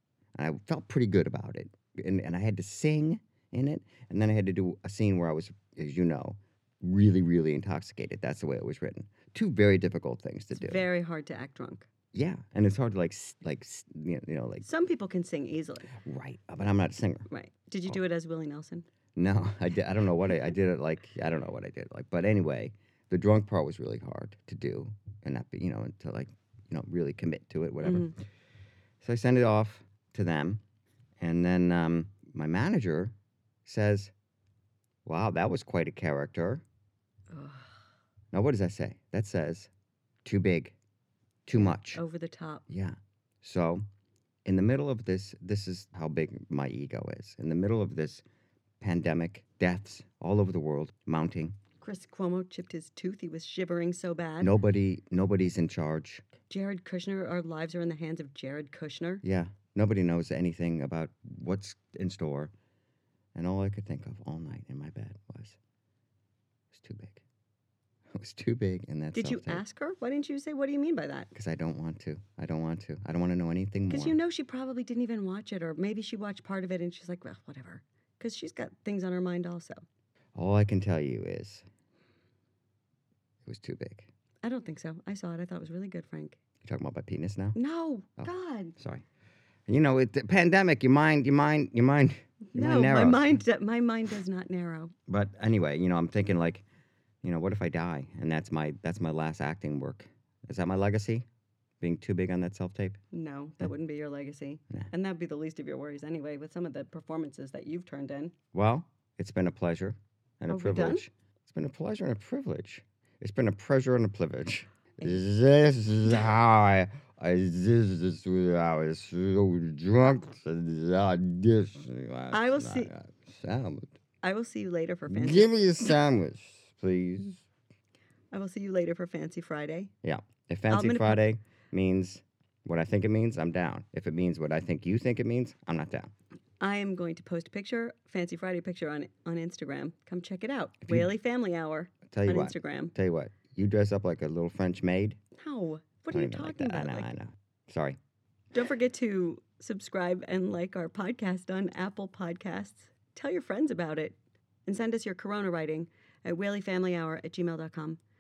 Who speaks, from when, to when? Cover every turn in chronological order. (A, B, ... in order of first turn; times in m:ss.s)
0:00.4-0:10.9 A
0:10.6-0:11.9 B
0:12.1-0:14.6 A
0:14.6-0:15.9 B
0:15.9-0:17.3 A
0:17.3-0:18.9 B
0:19.2-0:28.2 A
0:27.8-0:28.1 B
0:29.0-0:30.6 A
0:31.2-0:33.1 A
0:33.6-0:34.1 A
0:35.0-0:36.6 A
0:37.3-0:37.8 B
0:38.3-0:39.7 A
0:40.2-0:40.8 A
0:41.5-0:42.0 A
0:41.6-0:42.6 B
0:42.7-0:43.8 A
0:44.5-0:48.2 A
0:48.8-0:51.6 A
0:51.8-0:54.5 B
0:54.4-0:56.3 A
0:56.5-0:59.2 B
0:59.2-1:02.5 A
1:03.4-1:05.6 A
1:06.7-1:07.2 A
1:08.2-1:09.6 A
1:09.2-1:11.3 B
1:11.3-1:14.2 A
1:13.9-1:19.8 B
1:20.4-1:21.6 A
1:23.4-1:24.1 A
1:24.4-1:26.4 B
1:26.6-1:27.6 A
1:27.6-1:28.7 B
1:28.2-1:29.0 A
1:29.7-1:33.4 A
1:32.5-1:34.9 B
1:35.1-1:36.6 A
1:37.2-1:41.3 A
1:41.8-1:43.0 A
1:43.1-1:48.3 B
1:48.5-2:04.0 A
1:50.5-1:51.0 B
2:02.3-2:02.9 B
2:04.2-2:05.9 B
2:05.1-2:07.4 A
2:08.3-2:09.9 B
2:10.0-2:16.1 A
2:10.7-2:11.2 B
2:16.6-2:22.9 B
2:20.8-2:21.1 A
2:22.1-2:25.2 A
2:25.4-2:27.1 B
2:26.1-2:28.0 A
2:28.5-2:38.0 B